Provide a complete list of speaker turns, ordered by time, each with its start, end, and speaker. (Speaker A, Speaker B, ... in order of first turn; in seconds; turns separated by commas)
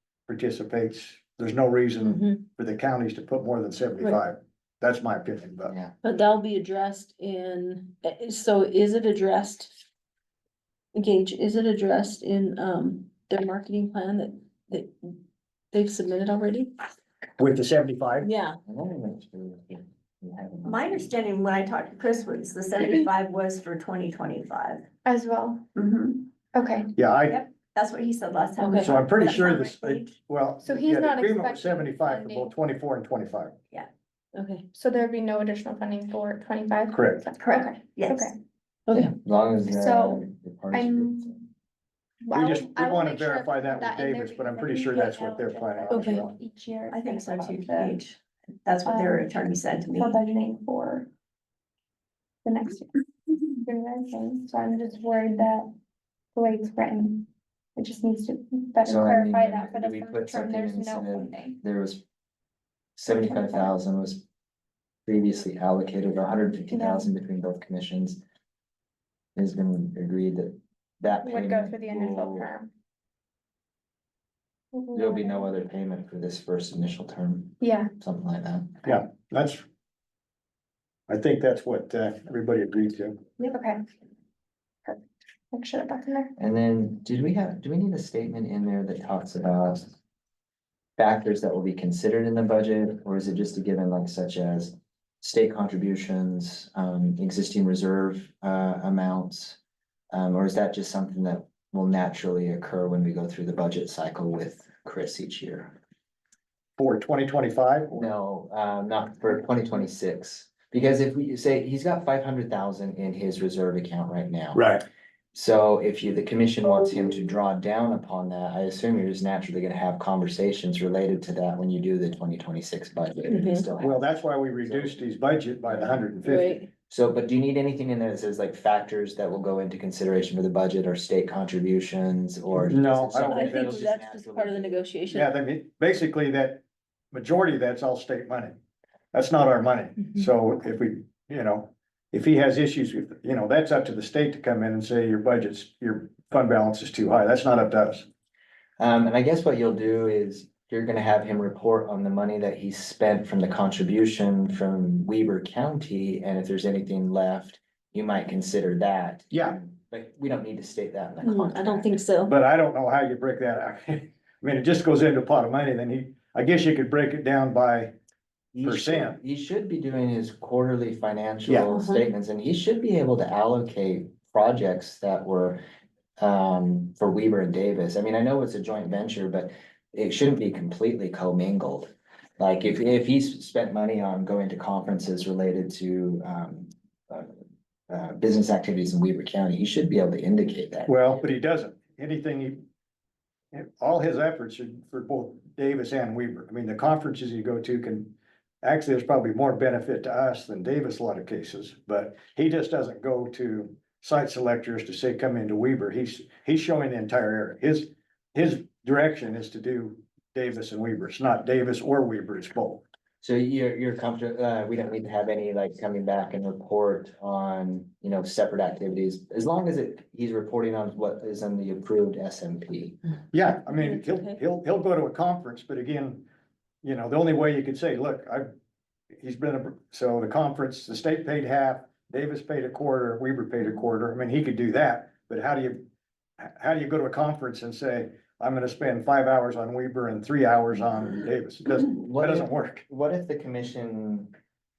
Speaker A: 0.3-5.7, Speaker B: 2.0-2.4, Speaker C: 5.7-5.9, Speaker B: 6.0-9.7, Speaker B: 10.9-15.2, Speaker B: 15.7-16.7, Speaker A: 17.4-18.3, Speaker B: 18.2-18.6, Speaker C: 18.7-21.1, Speaker D: 20.6-24.9, Speaker E: 25.0-25.6, Speaker D: 25.7-26.3, Speaker E: 26.5-26.9, Speaker A: 26.9-27.4, Speaker D: 27.3-30.1, Speaker B: 28.6-28.9, Speaker A: 28.8-33.5, Speaker E: 29.2-29.8, Speaker E: 30.6-32.5, Speaker B: 34.3-34.6, Speaker E: 34.7-38.3, Speaker A: 36.9-37.3, Speaker D: 37.4-38.3, Speaker B: 38.9-39.1, Speaker C: 38.9-41.4, Speaker E: 39.7-41.4, Speaker E: 42.2-47.9, Speaker A: 42.3-46.4, Speaker B: 45.9-46.2, Speaker D: 46.9-50.2, Speaker E: 48.9-49.2, Speaker E: 50.0-51.1, Speaker E: 52.4-55.7, Speaker E: 56.3-61.6, Speaker C: 58.8-62.0, Speaker C: 63.0-64.2, Speaker C: 65.0-68.2, Speaker E: 66.7-67.1, Speaker C: 69.3-72.5, Speaker E: 71.2-72.7, Speaker E: 74.7-75.5, Speaker C: 74.9-78.8, Speaker E: 77.6-77.9, Speaker A: 78.8-79.6, Speaker A: 81.1-83.2, Speaker E: 83.4-83.8, Speaker E: 84.8-86.3, Speaker C: 86.4-89.9, Speaker C: 91.0-99.6, Speaker C: 100.1-105.8, Speaker A: 106.8-108.1, Speaker C: 107.9-114.7, Speaker A: 114.5-114.8, Speaker C: 115.3-124.0, Speaker B: 123.3-123.6, Speaker A: 123.8-126.6, Speaker C: 124.6-126.1, Speaker B: 126.2-126.7, Speaker C: 126.9-134.8, Speaker A: 132.5-133.8, Speaker B: 133.2-135.3, Speaker A: 135.1-138.6, Speaker A: 139.1-148.1, Speaker C: 148.8-161.9, Speaker A: 159.3-159.6, Speaker B: 161.2-162.3, Speaker A: 162.2-167.9, Speaker C: 168.5-175.6, Speaker A: 168.6-169.2, Speaker A: 171.4-171.7, Speaker B: 171.7-172.1, Speaker C: 176.2-191.2, Speaker A: 190.9-192.6, Speaker A: 193.5-212.8, Speaker C: 213.2-223.0, Speaker A: 223.3-226.3, Speaker B: 223.7-224.4, Speaker A: 226.8-228.5, Speaker A: 229.2-235.8, Speaker A: 236.4-242.8, Speaker C: 241.7-244.3